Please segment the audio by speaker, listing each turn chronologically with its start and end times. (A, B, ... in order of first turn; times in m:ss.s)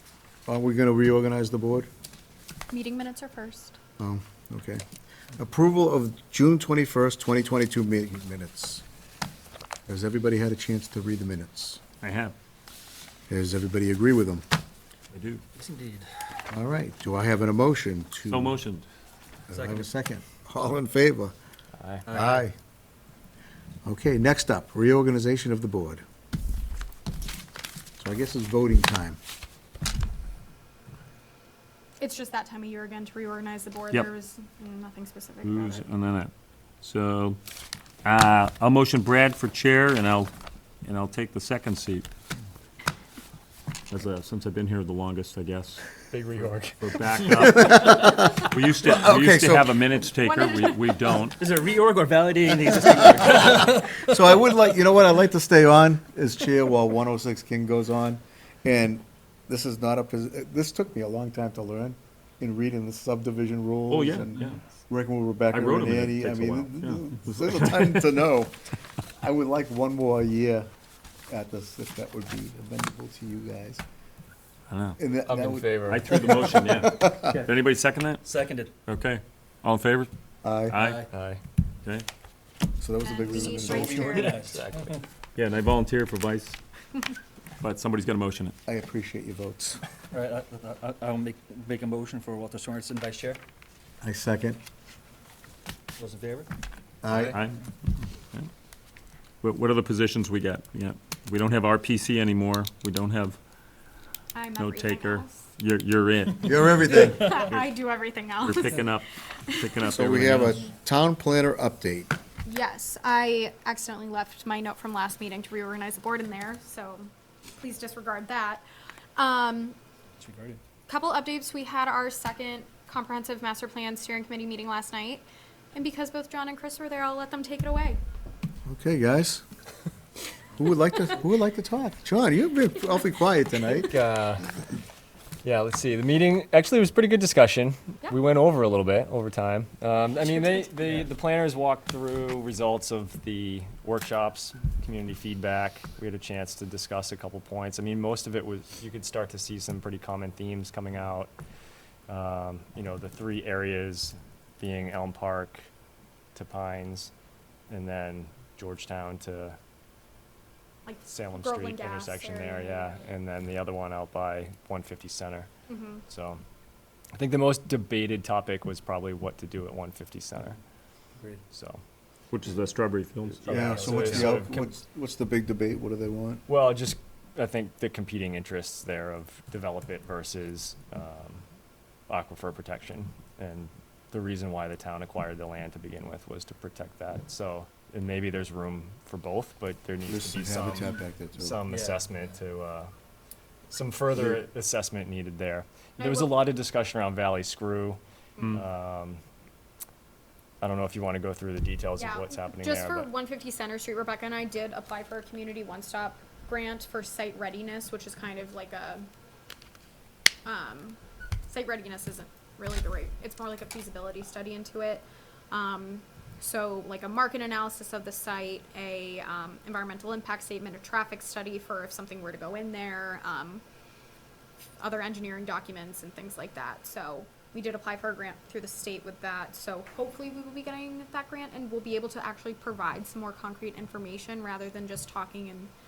0:00.5-0:01.9 A
0:02.7-0:03.8 B
0:04.0-0:04.8 A
0:05.4-0:08.8 A
0:09.9-0:11.8 A
0:12.0-0:12.4 C
0:13.3-0:14.4 A
0:15.1-0:15.4 C
0:15.6-0:16.1 D
0:16.5-0:18.6 A
0:18.3-0:18.9 C
0:19.5-0:19.9 D
0:19.5-0:21.3 A
0:21.8-0:22.0 E
0:22.1-0:22.4 D
0:22.1-0:22.6 A
0:23.8-0:26.0 A
0:28.0-0:29.2 A
0:32.0-0:35.8 B
0:35.4-0:37.4 C
0:38.0-0:40.3 C
0:40.8-0:42.1 C
0:43.9-0:45.8 C
0:46.1-0:47.1 E
0:46.4-0:51.4 C
0:47.3-0:49.9 A
0:50.2-0:51.3 B
0:51.3-0:54.0 D
0:53.2-1:08.6 A
1:03.9-1:04.6 C
1:05.5-1:08.2 C
1:09.2-1:10.7 A
1:11.3-1:13.8 A
1:14.7-1:15.0 C
1:15.0-1:17.3 A
1:15.3-1:15.6 E
1:15.9-1:18.2 C
1:18.2-1:18.7 D
1:18.9-1:20.1 C
1:20.4-1:20.8 A
1:20.7-1:21.1 C
1:20.7-1:21.1 D
1:21.1-1:21.4 E
1:22.8-1:24.4 A
1:23.0-1:24.4 B
1:23.3-1:25.0 D
1:25.4-1:26.6 C
1:27.6-1:28.6 C
1:28.7-1:29.8 A
1:30.1-1:33.4 D
1:34.0-1:34.6 A
1:36.0-1:36.5 D
1:37.0-1:37.4 A
1:37.1-1:37.4 D
1:37.3-1:37.6 C
1:39.4-1:43.4 C
1:44.3-1:45.4 B
1:44.6-1:47.7 C
1:46.4-1:47.4 A
1:47.1-1:48.9 B
1:48.4-1:50.6 C
1:49.5-1:49.7 B
1:49.8-1:52.1 A
1:52.4-1:58.6 B
1:59.2-1:59.8 B
2:00.2-2:00.6 D
2:00.9-2:08.0 B
2:08.7-2:09.4 A
2:10.5-2:14.0 A
2:13.8-2:14.5 E
2:15.4-2:31.3 E
2:20.2-2:20.7 B
2:32.1-2:35.7 E
2:36.4-2:37.1 E
2:37.7-2:39.6 E
2:40.8-2:43.1 B
2:41.1-2:45.5 E
2:45.7-2:46.0 B
2:46.1-2:46.4 E
2:47.2-2:50.6 E
2:51.5-2:51.8 E
2:52.3-2:54.4 C
2:53.4-2:54.6 E
2:53.5-2:56.4 A
2:56.5-3:01.4 E
3:02.1-3:12.9 E
3:10.1-3:11.6 A
3:11.7-3:12.0 D
3:13.7-3:19.2 E
3:14.1-3:14.4 A
3:16.0-3:16.4 B
3:20.6-3:23.1 E
3:22.0-3:29.1 B
3:30.4-3:43.6 B
3:44.8-3:55.7 B